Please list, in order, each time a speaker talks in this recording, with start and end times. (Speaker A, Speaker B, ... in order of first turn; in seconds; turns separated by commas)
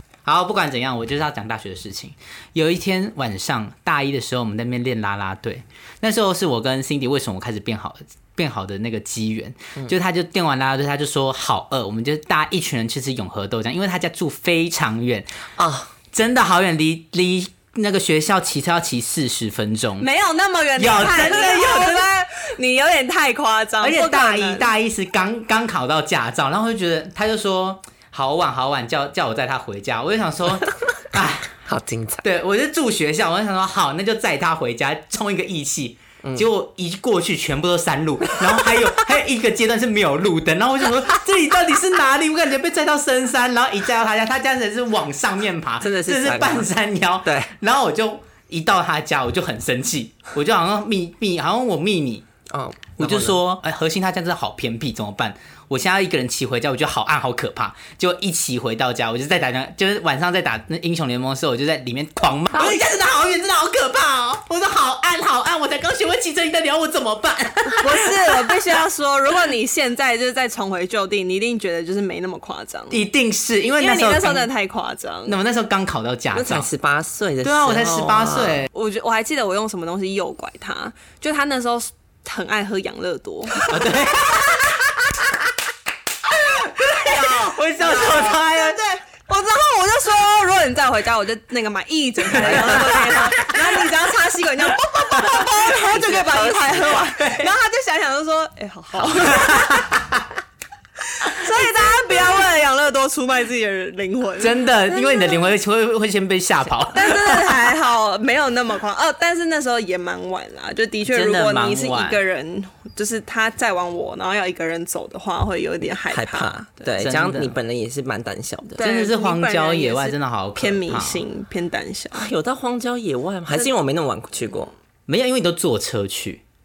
Speaker A: 0.2-15.3, Speaker B: 15.6-15.9, Speaker A: 16.1-20.1, Speaker C: 20.0-24.7, Speaker A: 20.8-22.0, Speaker A: 23.8-31.5, Speaker B: 31.6-32.2, Speaker A: 32.2-52.2, Speaker B: 36.2-36.5, Speaker B: 45.8-46.7, Speaker B: 47.2-47.5, Speaker B: 52.5-53.4, Speaker A: 53.0-68.2, Speaker C: 67.8-73.0, Speaker A: 72.9-74.5, Speaker C: 73.7-75.4, Speaker A: 75.3-76.7, Speaker B: 76.3-78.7, Speaker A: 77.4-78.7, Speaker C: 78.7-83.9, Speaker A: 83.6-85.3, Speaker A: 86.6-88.8, Speaker C: 86.8-99.9, Speaker A: 92.4-93.3, Speaker B: 92.4-93.2, Speaker A: 95.2-96.0, Speaker A: 96.9-97.5, Speaker A: 99.3-99.9, Speaker C: 101.2-105.5, Speaker A: 104.4-107.5, Speaker C: 106.9-116.9, Speaker A: 111.1-112.2, Speaker B: 116.1-118.8, Speaker A: 117.0-117.5, Speaker C: 118.8-122.3, Speaker A: 118.8-121.2, Speaker B: 122.1-124.7, Speaker A: 125.1-126.4